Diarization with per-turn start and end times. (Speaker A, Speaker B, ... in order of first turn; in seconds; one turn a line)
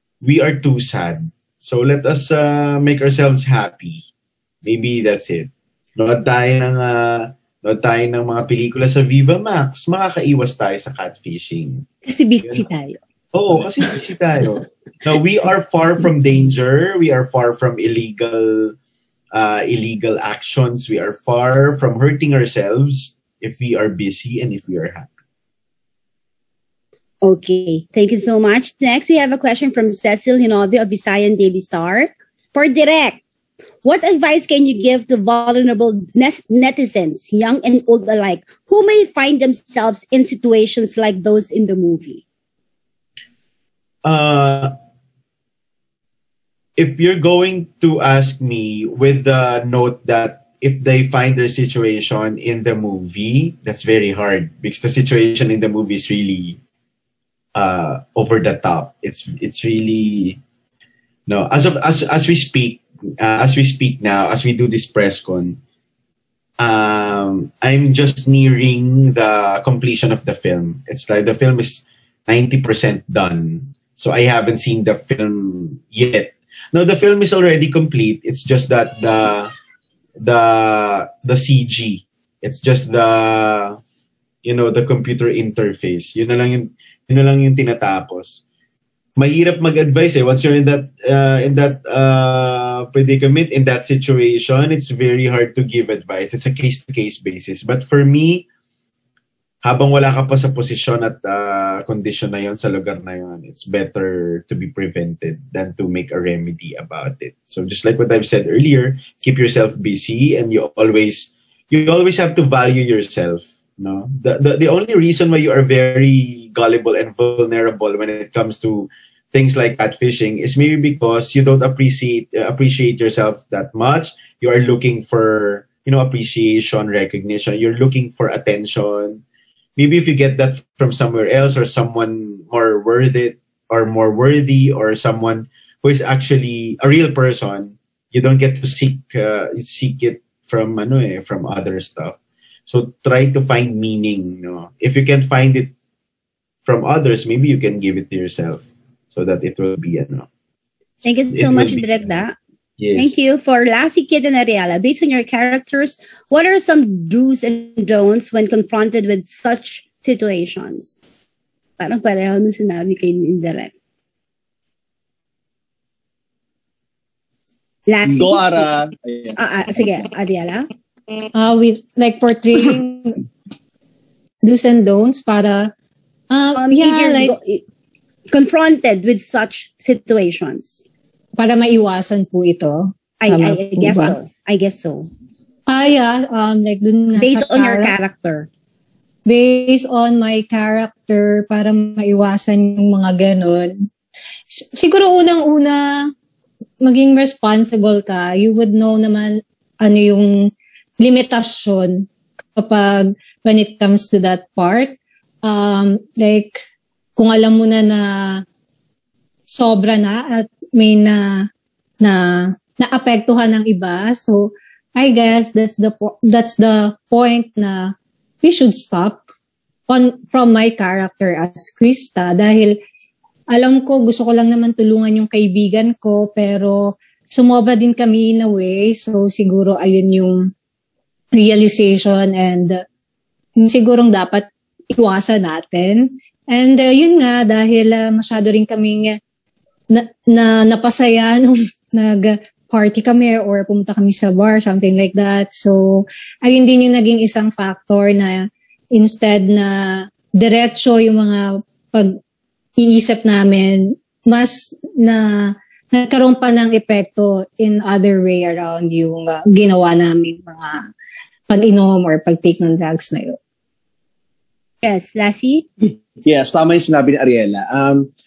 Speaker A: 0.2-4.0
Speaker A: 4.6-11.9
Speaker B: 12.1-13.0
Speaker A: 13.3-18.7
Speaker A: 19.3-25.1
Speaker B: 27.2-33.2
Speaker B: 33.8-42.2
Speaker A: 44.0-44.7
Speaker A: 46.8-56.6
Speaker A: 57.5-60.4
Speaker A: 61.3-65.6
Speaker A: 66.6-79.5
Speaker A: 80.2-83.8
Speaker A: 84.4-88.4
Speaker A: 89.2-98.4
Speaker A: 99.6-129.2
Speaker A: 129.8-145.7
Speaker A: 146.6-150.3
Speaker B: 151.0-152.3
Speaker A: 151.3-152.2
Speaker A: 152.8-153.1
Speaker B: 152.9-161.0
Speaker B: 161.8-163.7
Speaker B: 167.9-168.7
Speaker C: 168.1-169.3
Speaker B: 169.3-170.7
Speaker D: 171.3-173.2
Speaker D: 174.4-175.7
Speaker D: 176.3-177.3
Speaker B: 176.6-177.6
Speaker B: 178.3-180.8
Speaker D: 181.4-184.2
Speaker B: 183.2-185.1
Speaker D: 185.7-187.9
Speaker B: 187.2-188.5
Speaker D: 189.3-193.9
Speaker D: 194.5-196.1
Speaker D: 196.8-200.5
Speaker D: 201.0-206.6
Speaker D: 207.2-208.4
Speaker D: 209.5-211.5
Speaker D: 212.0-219.2
Speaker D: 219.9-222.8
Speaker D: 223.5-230.5
Speaker D: 231.3-232.8
Speaker D: 233.6-239.2
Speaker D: 239.9-252.2
Speaker D: 252.8-260.8
Speaker D: 261.5-263.4
Speaker B: 264.8-265.7
Speaker C: 266.2-268.1